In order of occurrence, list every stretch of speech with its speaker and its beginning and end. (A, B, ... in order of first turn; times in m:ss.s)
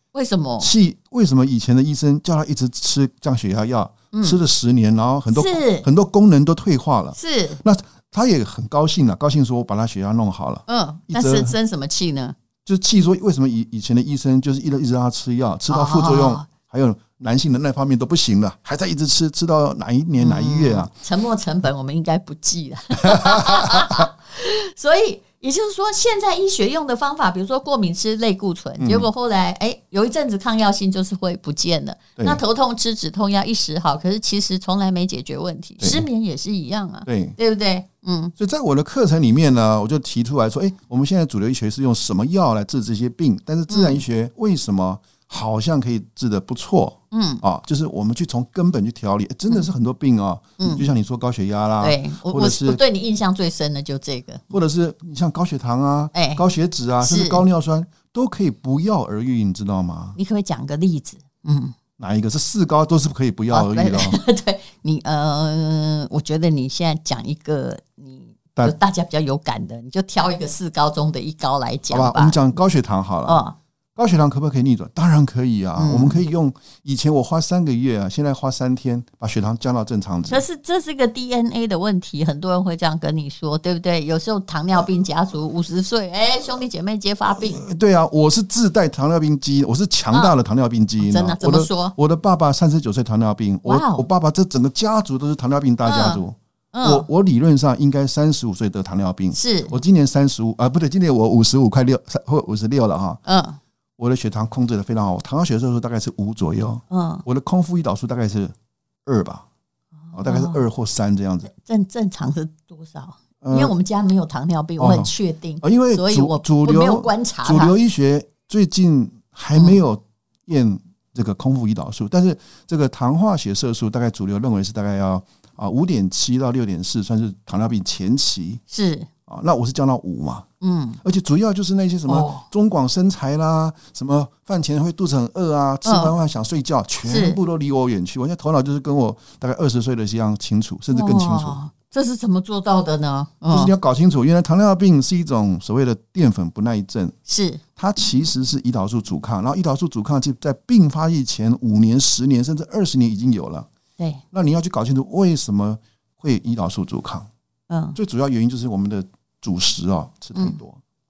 0:00.1-0:00.7 A
0:00.6-0:11.5 B
0:04.1-0:04.4 A
0:05.3-0:05.9 A
0:07.1-0:07.6 A
0:10.7-0:12.3 A
0:12.6-0:20.9 B
0:15.7-0:16.5 A
0:20.2-0:38.3 A
0:23.0-0:24.0 B
0:28.8-0:29.1 B
0:35.8-0:36.1 B
0:37.0-0:37.4 B
0:38.4-0:52.8 B
0:43.7-0:44.0 A
0:47.1-0:47.4 A
0:50.6-0:50.8 A
0:51.8-0:54.5 A
0:54.5-1:00.2 B
0:56.1-0:56.4 A
0:57.0-0:57.4 A
1:00.2-1:01.7 A
1:02.0-1:04.2 B
1:03.5-1:12.4 A
1:11.9-1:13.4 B
1:13.2-1:13.6 A
1:14.0-1:20.4 B
1:15.8-1:16.2 A
1:20.3-1:27.6 A
1:27.3-1:43.2 B
1:31.0-1:31.9 A
1:33.6-1:34.0 A
1:35.8-1:37.0 A
1:39.3-1:39.8 A
1:43.2-1:43.6 A
1:44.0-1:48.5 B
1:46.9-1:47.2 A
1:49.0-1:49.4 B
1:50.1-1:50.6 A
1:50.1-1:51.5 B
1:51.5-1:57.7 A
1:53.4-1:53.7 B
1:54.8-1:55.1 B
1:55.6-2:08.6 B
1:59.5-1:59.8 A
2:08.7-2:09.1 A
2:09.3-2:10.4 B
2:10.6-2:11.0 A
2:11.0-2:21.6 B
2:12.1-2:12.4 A
2:15.8-2:16.1 A
2:17.0-2:17.4 A
2:20.9-2:23.7 A
2:23.5-2:27.1 B
2:27.3-2:27.6 A
2:27.8-2:33.7 B
2:34.3-2:37.3 B
2:37.7-2:38.0 A
2:37.9-2:40.8 B